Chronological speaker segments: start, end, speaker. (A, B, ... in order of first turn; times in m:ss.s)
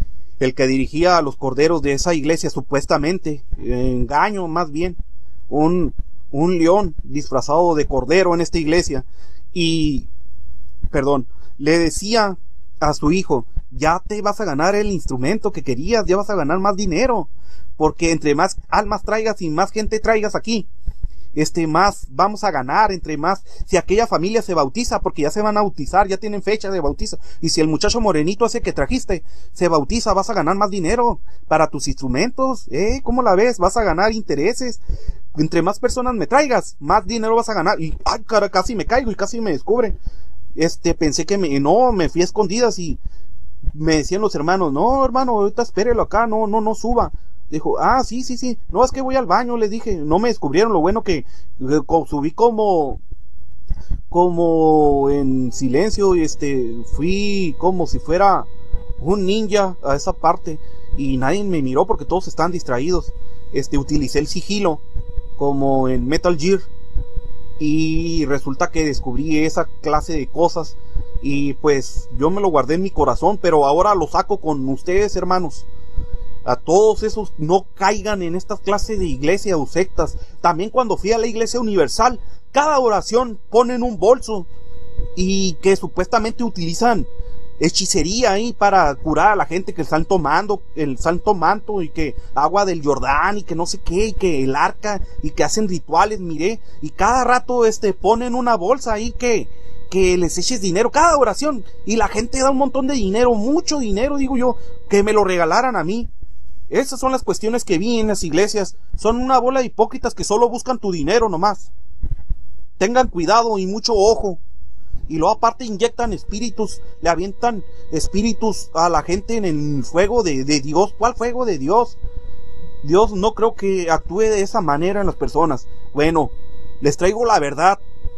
0:00.4-0:10.1 A
0:10.9-0:20.7 A
0:21.4-0:34.8 A
0:35.3-0:40.0 A
0:40.6-0:43.0 A
0:43.7-0:53.0 A
0:54.1-0:58.5 A
0:59.0-1:04.8 A
1:05.4-1:06.7 A
1:07.6-1:15.7 A
1:16.4-1:24.5 A
1:25.2-1:27.1 A
1:27.6-1:46.1 A
1:46.7-1:51.7 A
1:52.8-1:54.4 A
1:55.1-2:02.0 A
2:02.8-2:07.8 A